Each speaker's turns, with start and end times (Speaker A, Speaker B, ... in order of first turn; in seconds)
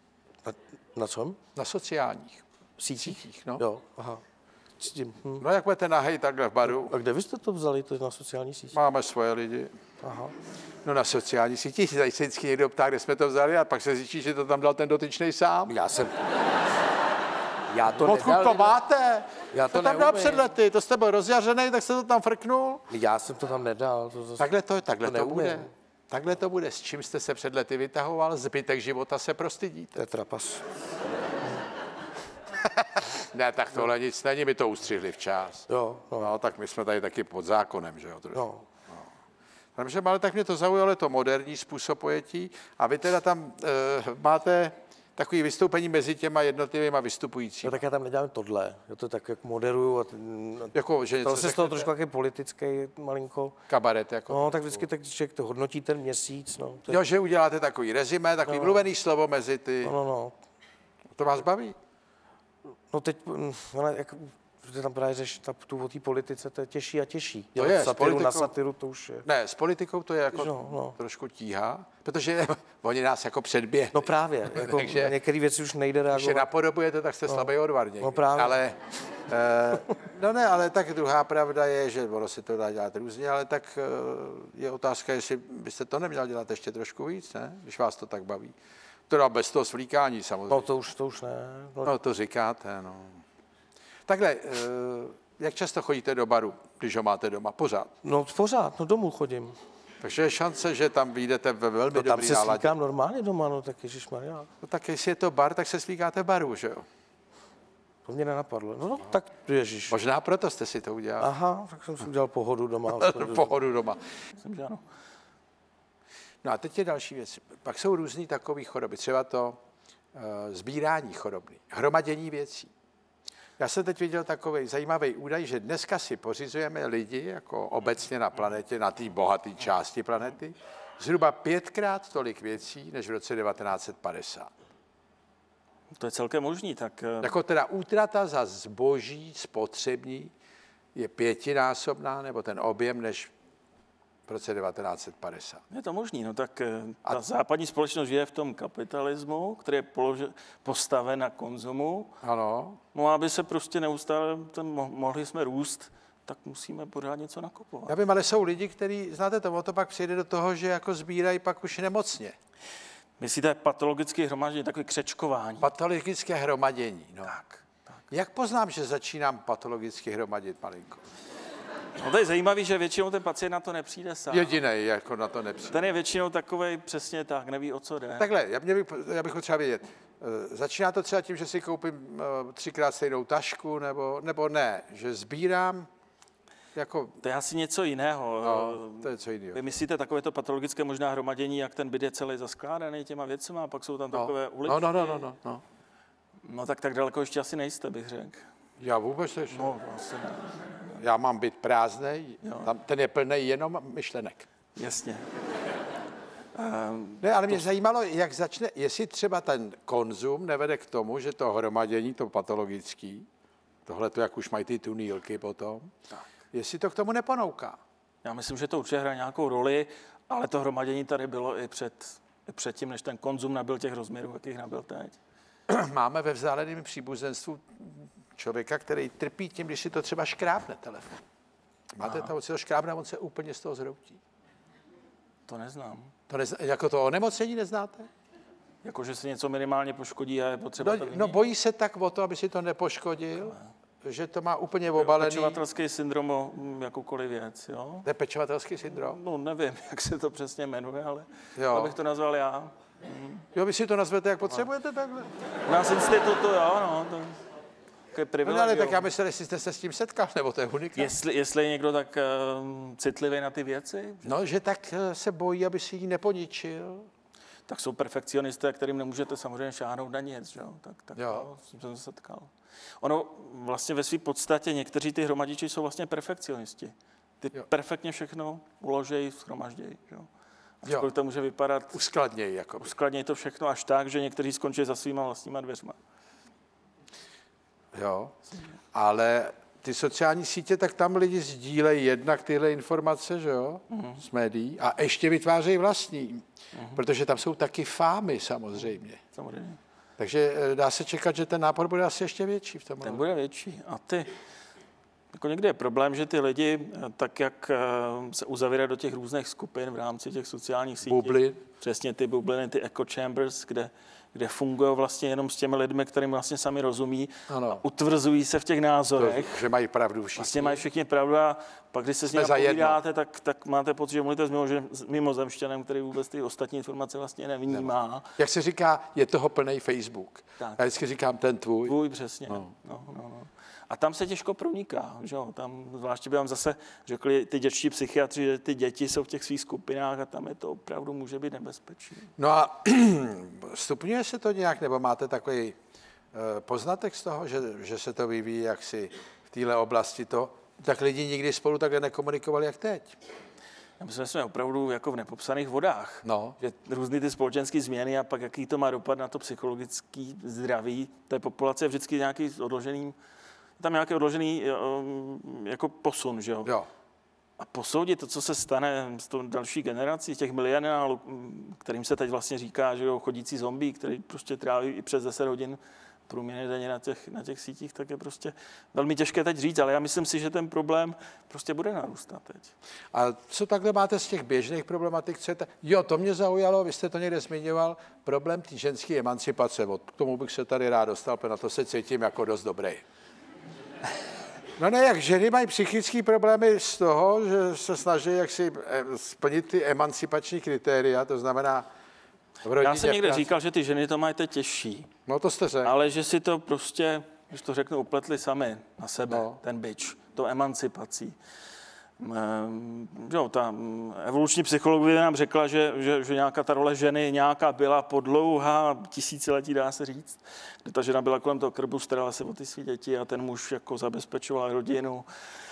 Speaker A: 0.4-1.4, 2.8-4.2, 4.8-5.4, 6.6-8.8, 10.0-10.3, 15.7-16.2, 17.7-18.8, 19.5-20.5, 22.9-25.7, 29.9-30.6, 35.7-36.3, 38.3-38.6, 47.6-53.6, 54.3-57.0, 58.5-58.8, 59.8-60.4, 62.9-69.2, 70.3-71.0, 73.9-76.5, 77.3-78.6, 90.5-91.9, 98.0-99.5, 101.9-104.5, 108.0-110.0, 111.2-113.5
Speaker B: 1.6-2.4, 3.0-3.6, 5.4-6.9, 8.7-9.7, 10.8-15.7, 18.0-22.8, 24.4-30.0, 32.6-35.7, 36.2-39.0, 39.8-47.8, 50.7-51.9, 53.7-54.8, 56.9-60.0, 61.1-61.8, 67.6-68.5, 69.2-75.1, 76.1-88.5, 89.1-90.7, 91.8-93.2, 94.0-97.9, 100.0-102.7, 104.6-106.8, 109.9-111.3, 112.9-114.0, 116.4-119.6, 120.1-122.7, 123.6-134.5, 137.2-140.3, 140.9-143.3, 144.3-145.6, 152.2-152.8, 157.9-162.3, 165.6-167.3, 168.1-171.0, 174.3-175.8, 178.2-185.9, 186.7-187.2, 188.4-189.6, 194.1-195.6, 198.8-199.7, 201.0-204.5, 207.2-213.3, 213.8-215.9, 216.5-217.8, 225.7-231.2, 231.9-234.2, 236.3-238.1, 240.8-245.6, 248.0-249.2, 251.6-251.9, 253.5-255.3, 258.4-261.1, 264.2-267.1, 271.1-271.5, 281.9-282.9, 287.9-288.3, 288.9-299.2, 300.2-303.2, 311.0-311.6, 317.5-317.8, 319.2-320.8, 322.3-323.0, 327.7-331.9, 342.4-345.8, 346.3-353.1, 356.2-356.6, 383.1-393.0, 394.8-401.9, 402.6-403.5, 405.3-405.9, 409.3-409.6
Speaker C: 114.4-114.8, 135.9-137.3, 145.7-152.2, 152.9-157.9, 163.2-165.7, 167.3-167.6, 172.0-174.6, 175.7-178.2, 187.2-195.3, 196.4-198.4, 199.5-201.0, 202.4-202.7, 204.8-205.2, 206.5-207.6, 218.2-225.2, 232.0-232.3, 235.5-236.1, 238.8-241.4, 245.0-248.1, 248.9-253.4, 255.7-257.4, 258.1-259.1, 260.9-264.3, 267.7-280.3, 280.8-282.0, 282.8-286.0, 293.9-294.2, 296.7-297.0, 299.3-299.8, 303.0-304.3, 305.3-319.7, 320.4-328.3, 331.9-342.3, 354.0-363.1, 363.8-366.7, 367.6-382.7, 402.8-405.1, 405.8-411.4, 412.2-425.3